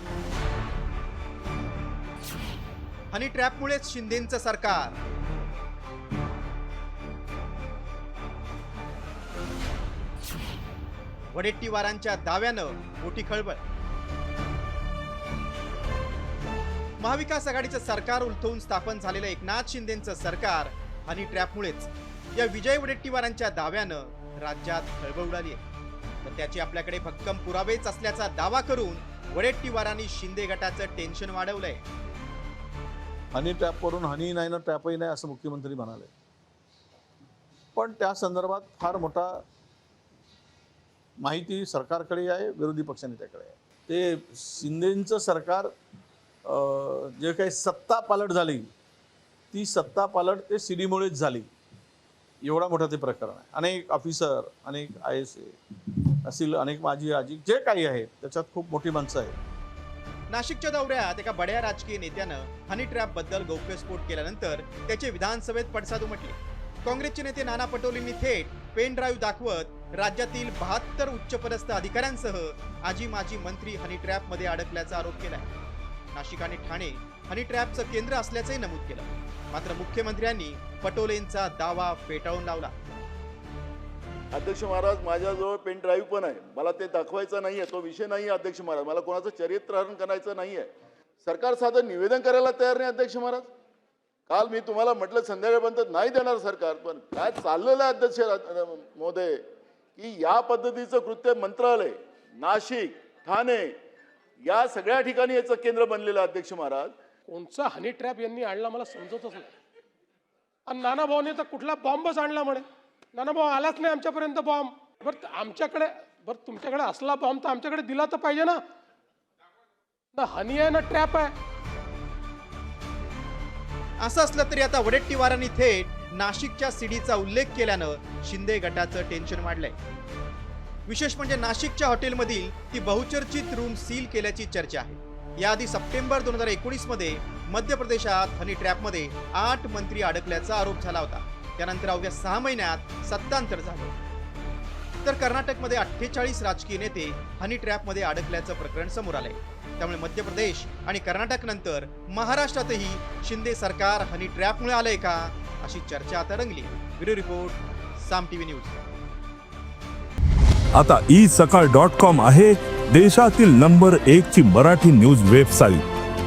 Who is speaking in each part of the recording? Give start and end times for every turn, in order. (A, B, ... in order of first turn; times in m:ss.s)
0:03.1-0:04.9 A
0:11.3-0:13.6 A
0:17.0-0:25.6 A
0:26.2-0:31.8 A
0:33.3-0:36.1 B
0:37.7-0:39.4 B
0:41.2-0:45.7 B
0:46.4-0:48.7 B
0:49.5-0:51.5 B
0:52.4-0:59.4 B
1:00.3-1:15.5 A
1:16.1-1:22.7 A
1:24.3-1:30.7 C
1:31.2-1:33.5 C
1:34.3-1:39.4 C
1:40.0-1:43.7 C
1:44.4-1:46.9 C
1:47.3-1:49.5 D
1:50.7-1:58.6 D
2:00.2-2:01.3 D
2:04.0-2:09.7 A
2:10.9-2:23.9 A
2:25.0-2:38.8 A
2:40.7-2:45.8 E